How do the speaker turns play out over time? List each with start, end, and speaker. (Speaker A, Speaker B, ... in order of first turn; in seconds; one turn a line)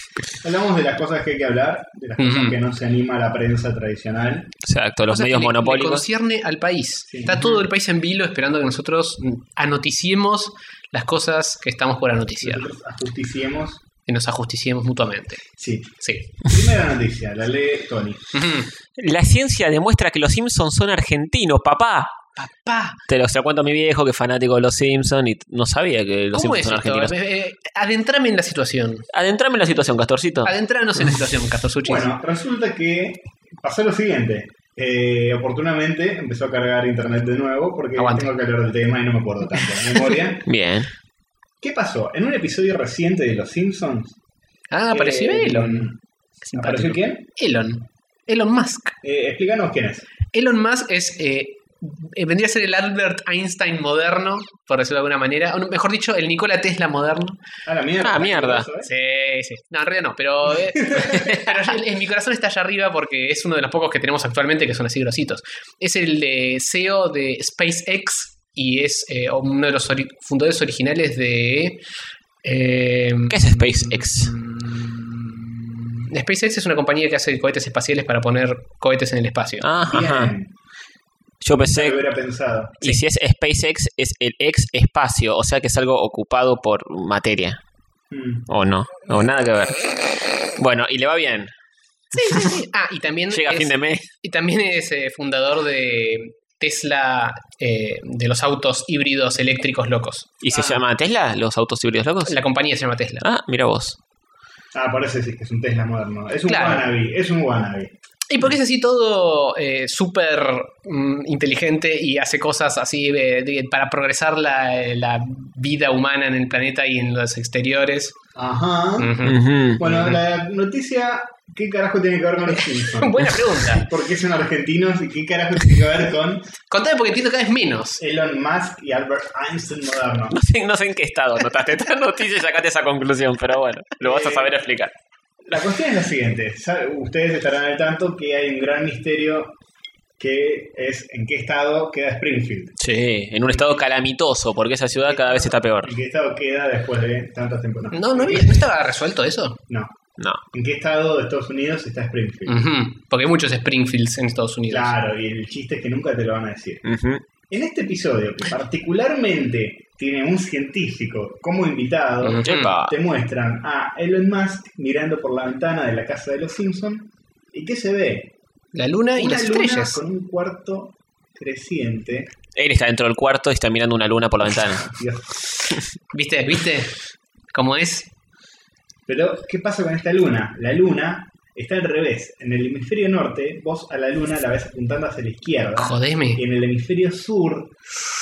Speaker A: 0.4-4.5
Speaker B: 2.2-2.6
Speaker C: 4.6-6.0
Speaker B: 5.1-12.7
Speaker A: 7.1-7.4
Speaker A: 12.4-13.8
Speaker B: 14.1-15.4
Speaker A: 15.6-18.3
Speaker B: 16.0-16.3
Speaker B: 18.3-18.7
Speaker C: 19.0-22.2
Speaker B: 22.4-23.0
Speaker C: 23.1-27.1
Speaker B: 26.3-29.1
Speaker C: 29.1-30.5
Speaker B: 30.4-32.1
Speaker A: 31.8-40.5
Speaker B: 38.0-38.3
Speaker C: 40.5-40.9
Speaker A: 41.6-44.2
Speaker B: 44.7-45.9
Speaker A: 44.9-46.0
Speaker B: 46.5-48.9
Speaker A: 46.5-47.2
Speaker A: 49.0-50.1
Speaker B: 50.3-57.4
Speaker A: 57.6-58.9
Speaker C: 58.0-58.7
Speaker B: 58.8-71.8
Speaker A: 60.8-61.3
Speaker B: 72.4-75.3
Speaker C: 73.3-74.3
Speaker B: 76.0-79.7
Speaker C: 79.6-80.3
Speaker A: 79.8-80.5
Speaker C: 81.4-82.0
Speaker A: 81.6-82.9
Speaker C: 82.8-87.6
Speaker A: 88.1-88.5
Speaker C: 88.5-89.9
Speaker C: 90.6-91.5
Speaker B: 92.1-100.3
Speaker C: 93.3-94.1
Speaker C: 100.4-102.4
Speaker A: 100.5-100.8
Speaker B: 102.2-103.2
Speaker C: 103.2-104.0
Speaker A: 104.7-107.9
Speaker B: 106.5-106.9
Speaker B: 108.3-118.2
Speaker A: 118.3-126.5
Speaker B: 119.0-120.1
Speaker C: 119.2-119.9
Speaker B: 122.5-123.9
Speaker B: 126.7-128.0
Speaker A: 128.0-130.4
Speaker C: 130.3-134.9
Speaker A: 134.0-134.6
Speaker A: 135.4-139.5
Speaker A: 140.2-142.7
Speaker C: 142.8-145.9
Speaker A: 143.5-143.8
Speaker A: 145.0-148.7
Speaker B: 147.9-149.6
Speaker A: 149.7-152.6
Speaker B: 152.5-154.9
Speaker A: 154.7-156.8
Speaker C: 156.8-157.2
Speaker A: 157.5-168.3
Speaker B: 162.2-162.7
Speaker C: 162.4-162.9
Speaker B: 168.7-170.0
Speaker A: 169.2-172.3
Speaker C: 172.5-174.9
Speaker A: 174.8-175.3
Speaker B: 176.1-176.9
Speaker B: 177.5-178.1
Speaker A: 179.1-187.7
Speaker B: 185.8-186.4